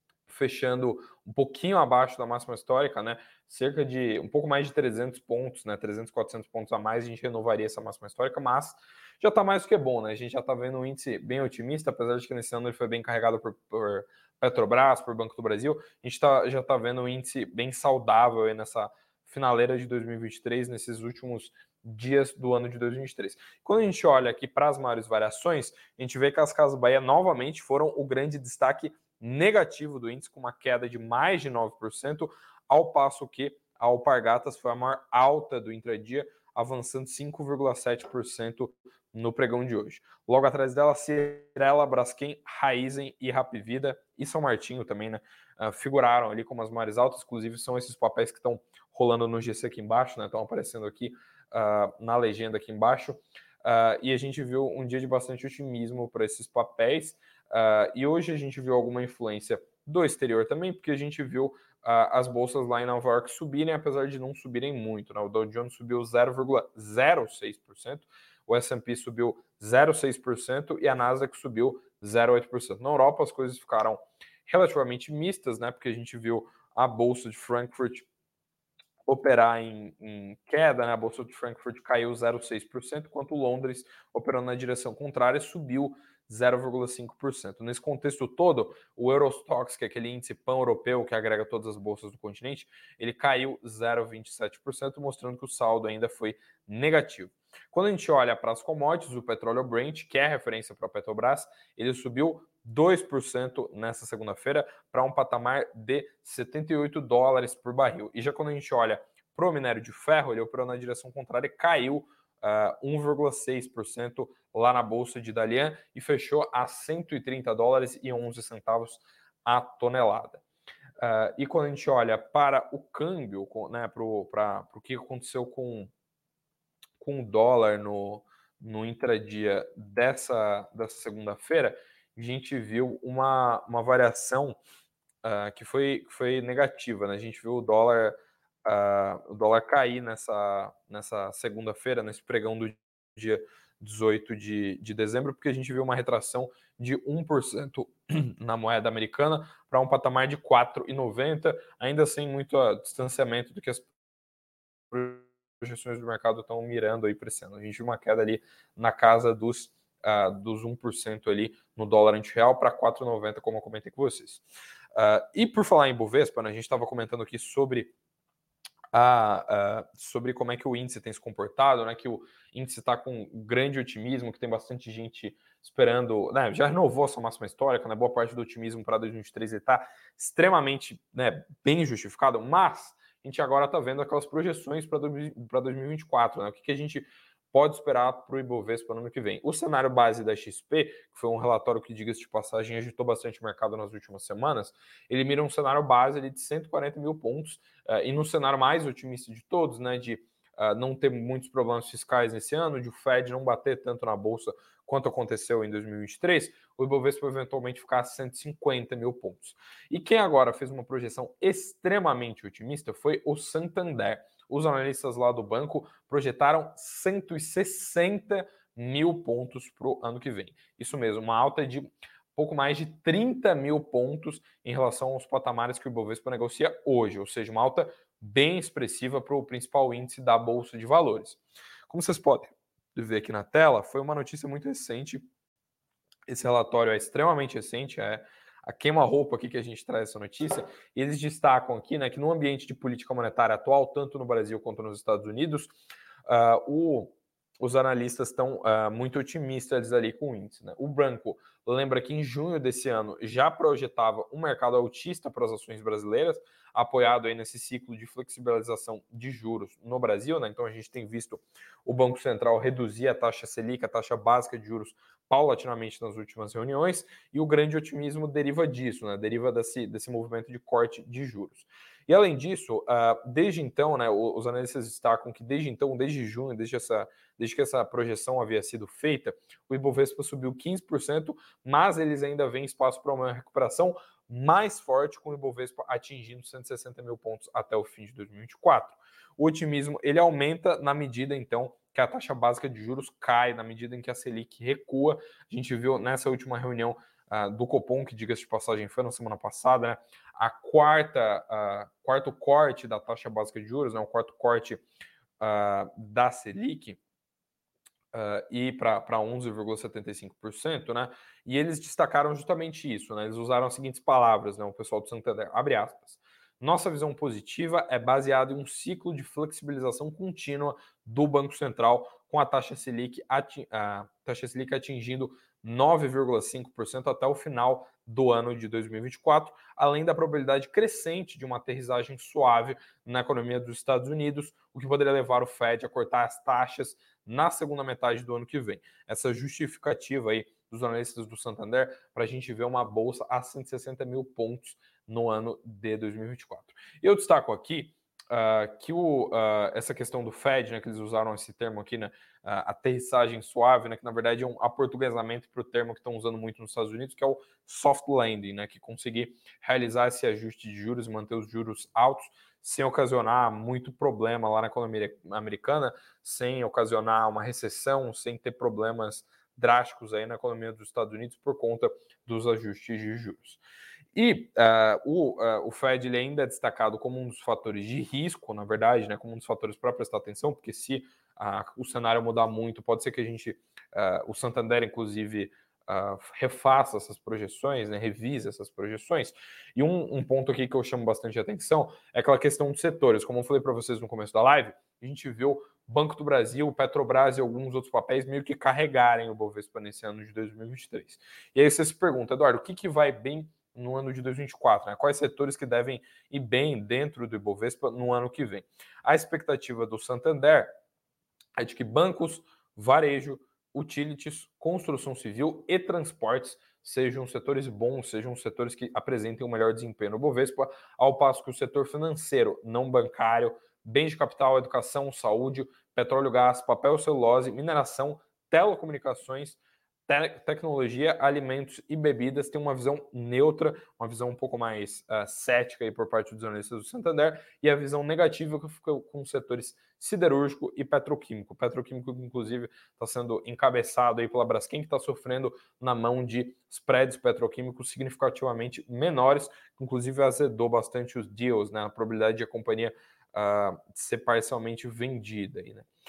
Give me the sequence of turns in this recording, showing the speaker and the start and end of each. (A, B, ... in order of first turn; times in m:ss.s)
0:00.3-1:18.0 A
1:19.0-2:00.4 A
2:01.0-2:05.9 A
2:07.0-2:14.6 A
2:15.2-2:33.9 A
2:34.9-2:44.4 A
2:44.9-2:47.9 A
2:48.9-3:55.2 A
3:56.3-4:05.7 A
4:06.3-5:04.8 A
5:05.4-5:07.0 A
5:08.1-6:13.6 A
6:14.1-6:50.7 A
6:51.6-7:35.9 A